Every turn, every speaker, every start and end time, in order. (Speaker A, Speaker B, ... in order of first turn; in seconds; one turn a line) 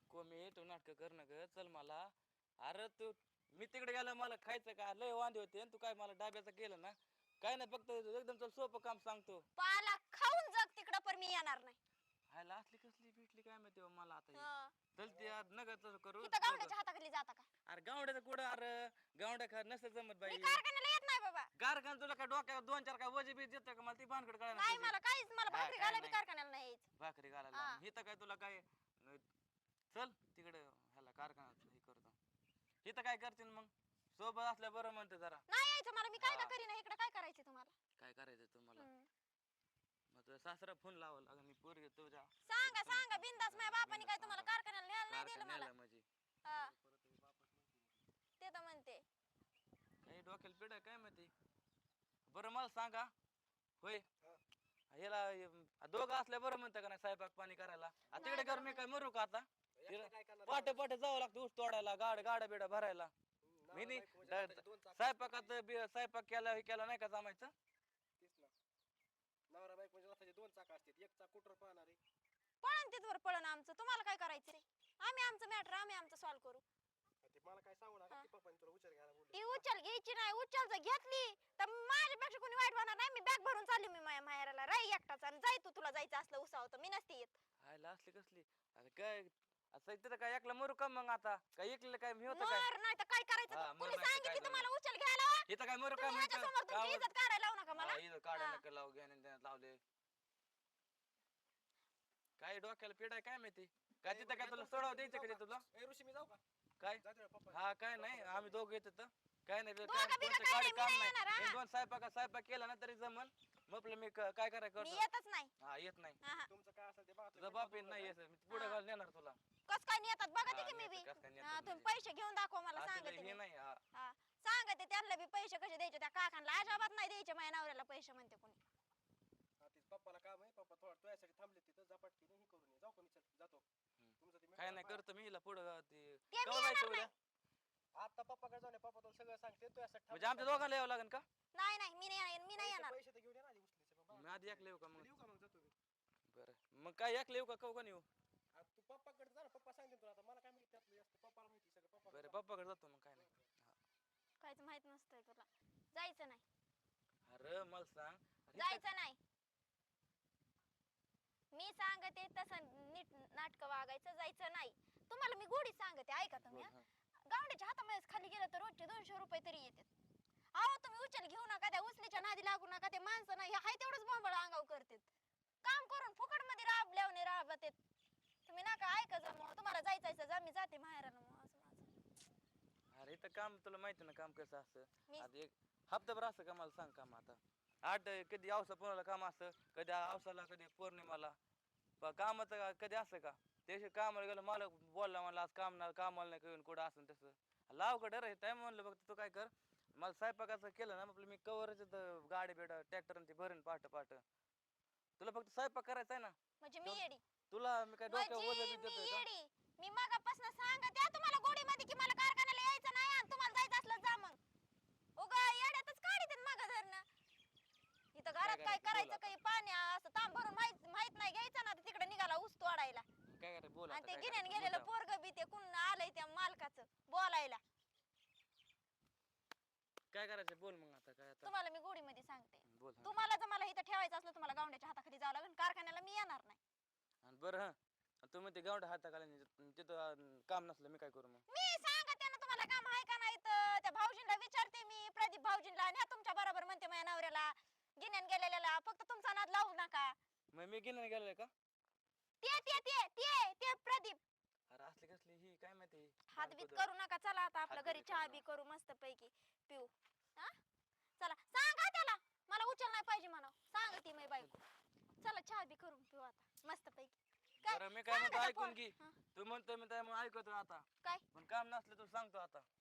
Speaker A: 0.1-9.4
Speaker B: 9.6-11.8
Speaker A: 12.3-16.7
Speaker B: 14.3-14.7
Speaker C: 15.0-15.4
Speaker B: 16.2-17.5
Speaker A: 17.6-20.6
Speaker B: 20.2-21.5
Speaker A: 21.6-25.0
Speaker B: 24.5-26.9
Speaker A: 25.5-26.2
Speaker A: 27.0-29.2
Speaker B: 27.5-27.8
Speaker A: 29.9-32.1
Speaker A: 32.8-35.4
Speaker B: 35.5-37.7
Speaker A: 36.2-36.5
Speaker A: 38.0-38.9
Speaker B: 38.8-39.1
Speaker A: 40.1-44.5
Speaker B: 42.5-45.7
Speaker A: 45.1-46.0
Speaker B: 46.4-46.7
Speaker C: 46.5-48.0
Speaker B: 48.4-49.0
Speaker A: 50.0-51.3
Speaker A: 52.3-53.1
Speaker A: 54.9-63.1
Speaker B: 58.1-58.8
Speaker C: 59.8-60.8
Speaker C: 63.4-65.5
Speaker A: 63.7-67.5
Speaker C: 68.2-68.5
Speaker C: 69.5-72.0
Speaker B: 72.6-76.6
Speaker C: 77.2-79.6
Speaker B: 79.3-87.3
Speaker A: 87.6-92.7
Speaker B: 92.3-98.6
Speaker A: 93.5-94.7
Speaker A: 95.5-97.1
Speaker A: 97.7-99.8
Speaker A: 102.4-105.6
Speaker C: 104.1-106.4
Speaker A: 106.8-115.0
Speaker C: 107.0-108.6
Speaker B: 109.8-111.6
Speaker B: 114.8-115.5
Speaker A: 115.6-116.2
Speaker B: 116.2-116.5
Speaker C: 116.5-118.2
Speaker A: 117.3-119.4
Speaker B: 118.5-118.8
Speaker B: 119.7-123.4
Speaker A: 120.4-121.9
Speaker A: 122.7-123.8
Speaker B: 123.9-128.6
Speaker C: 129.6-133.6
Speaker A: 134.0-137.1
Speaker C: 134.2-135.0
Speaker B: 136.3-137.1
Speaker C: 137.9-140.7
Speaker A: 140.1-141.2
Speaker B: 141.5-142.9
Speaker C: 142.6-145.7
Speaker A: 144.1-145.1
Speaker A: 146.3-148.1
Speaker C: 148.5-152.4
Speaker A: 152.1-153.7
Speaker B: 154.4-156.4
Speaker A: 157.2-158.8
Speaker B: 158.6-159.2
Speaker B: 161.5-166.7
Speaker A: 166.4-166.8
Speaker B: 167.3-169.9
Speaker B: 170.5-175.1
Speaker B: 175.6-177.8
Speaker B: 178.4-181.9
Speaker A: 182.9-191.3
Speaker A: 192.0-204.2
Speaker A: 205.2-209.2
Speaker B: 206.6-207.2
Speaker B: 208.1-214.4
Speaker B: 215.2-217.1
Speaker B: 218.1-223.1
Speaker A: 218.4-219.3
Speaker A: 223.3-224.9
Speaker B: 223.9-227.6
Speaker A: 230.1-231.5
Speaker B: 231.4-236.6
Speaker A: 232.7-233.1
Speaker A: 237.2-241.4
Speaker B: 241.5-250.2
Speaker A: 250.5-251.5
Speaker B: 252.4-254.2
Speaker A: 252.5-252.8
Speaker A: 254.7-256.9
Speaker B: 256.3-260.5
Speaker A: 257.7-258.4
Speaker B: 261.2-264.6
Speaker B: 265.2-269.2
Speaker A: 267.6-272.6